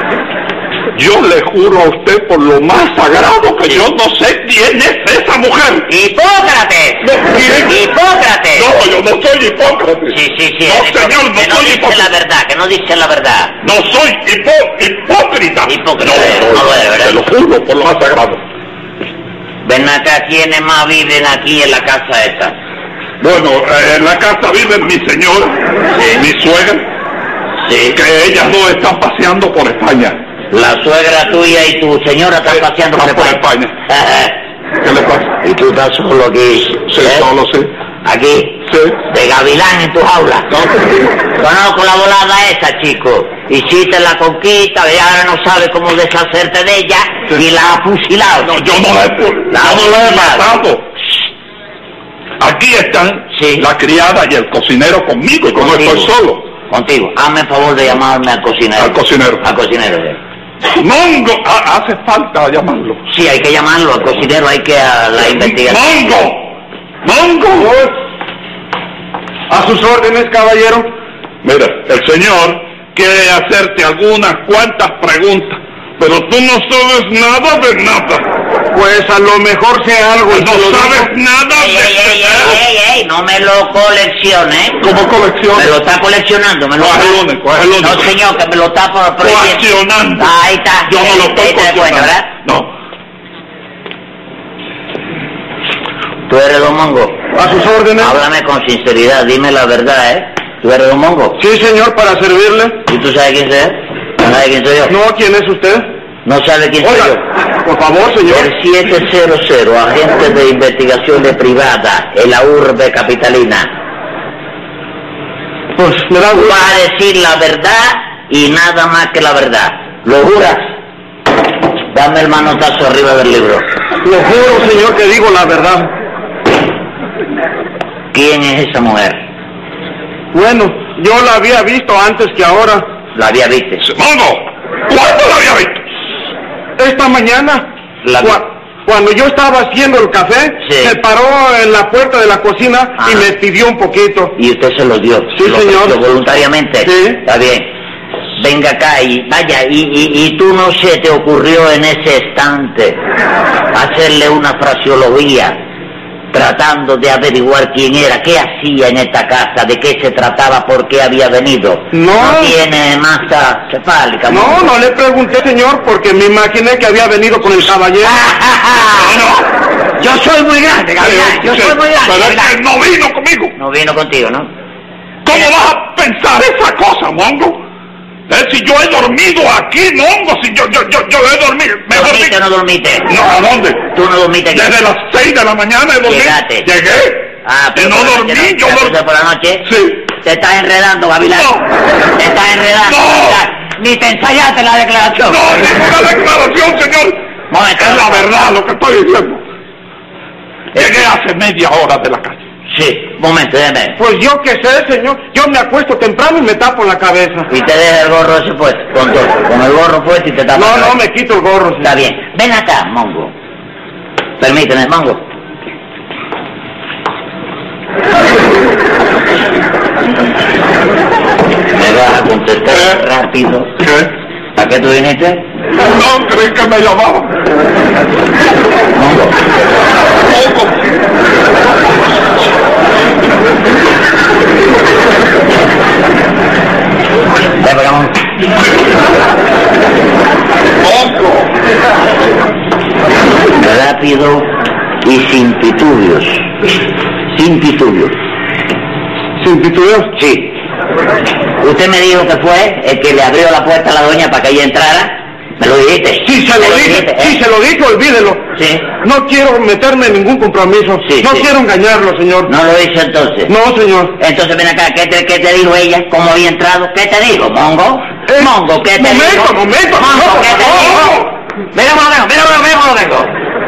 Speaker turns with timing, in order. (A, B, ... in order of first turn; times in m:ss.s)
0:00.9-0:05.9 A
0:05.9-0:08.7 B
0:07.0-0:07.7 A
0:08.6-0:12.1 A
0:10.1-0:13.6 B
0:13.6-0:18.4 A
0:15.6-0:17.2 B
0:19.6-0:22.6 B
0:23.2-0:26.9 A
0:25.9-0:26.2 B
0:27.6-0:28.0 B
0:27.9-0:30.2 A
0:30.5-0:34.4 B
0:32.5-0:33.7 A
0:34.8-0:35.3 A
0:35.4-0:37.3 B
0:36.8-0:37.7 A
0:38.0-0:40.5 B
0:38.7-0:39.0 A
0:40.5-0:40.8 A
0:41.4-0:48.6 B
0:48.4-0:50.9 A
0:49.5-0:50.5 B
0:52.4-0:56.5 A
0:53.3-0:53.7 B
0:55.5-0:56.1 B
0:56.7-1:00.2 B
0:58.8-0:59.4 A
1:00.8-1:03.0 A
1:03.1-1:05.8 B
1:05.4-1:07.7 A
1:07.6-1:07.9 C
1:09.5-1:10.9 C
1:11.4-1:18.3 A
1:18.7-1:21.1 C
1:20.3-1:22.6 A
1:21.5-1:25.0 B
1:24.8-1:25.7 A
1:25.5-1:27.2 B
1:26.8-1:28.1 A
1:27.8-1:29.6 B
1:29.2-1:30.3 A
1:30.2-1:32.3 B
1:30.8-1:32.7 A
1:36.3-1:37.2 B
1:37.3-1:38.1 C
1:38.0-1:41.4 B
1:41.4-1:42.8 C
1:42.9-1:45.0 B
1:44.9-1:45.9 C
1:46.2-1:47.2 B
1:46.8-1:48.5 C
1:48.2-1:53.7 B
1:55.8-1:56.6 C
1:56.3-2:00.8 B
2:01.9-2:03.7 B
2:04.0-2:05.9 C
2:08.1-2:09.2 B
2:10.3-2:12.9 C
2:13.1-2:13.9 B
2:13.8-2:15.8 A
2:16.8-2:17.7 C
2:18.0-2:18.4 B
2:18.2-2:24.3 C
2:20.6-2:21.0 B
2:23.0-2:23.3 B
2:24.4-2:27.7 B
2:25.4-2:26.0 C
2:26.8-2:27.2 C
2:28.4-2:33.0 B
2:33.7-2:35.6 B
2:36.3-2:44.7 B
2:41.9-2:42.5 C
2:44.3-2:48.2 C
2:48.0-2:49.2 B
2:49.0-2:49.5 A
2:50.0-2:52.6 B
2:51.0-2:53.5 A
2:53.6-2:54.5 B
2:55.2-2:57.6 A
2:58.3-3:02.3 A
3:01.9-3:03.1 B
3:03.1-3:03.9 A
3:03.9-3:04.7 B
3:04.5-3:08.9 A
3:06.0-3:06.7 B
3:07.4-3:11.6 B
3:09.6-3:10.1 A
3:11.4-3:11.6 A
3:12.1-3:15.4 B
3:12.8-3:13.4 A
3:15.3-3:17.2 A
3:17.5-3:18.3 B
3:17.8-3:19.4 A
3:20.7-3:22.4 A
3:20.7-3:21.1 B
3:22.7-3:24.0 B
3:24.0-3:27.5 C
3:27.5-3:31.0 B
3:30.5-3:31.9 C
3:31.8-3:33.3 B
3:34.4-3:35.2 B
3:41.7-3:43.7 B
3:42.7-3:43.0 A
3:43.8-3:44.1 A
3:44.6-3:45.5 B
3:45.8-3:47.3 A
3:48.9-3:49.4 B
3:50.3-3:50.8 A
3:57.6-3:58.3 B
4:00.8-4:01.5 A
4:03.5-4:06.5 B
4:07.3-4:08.2 B
4:09.4-4:10.1 C
4:10.1-4:10.6 B
4:11.6-4:17.4 B
4:16.2-4:18.4 C
4:18.5-4:18.9 B
4:19.0-4:22.5 C
4:21.0-4:21.5 B
4:22.5-4:23.5 B
4:23.5-4:24.1 C
4:24.2-4:33.3 B
4:28.3-4:31.2 C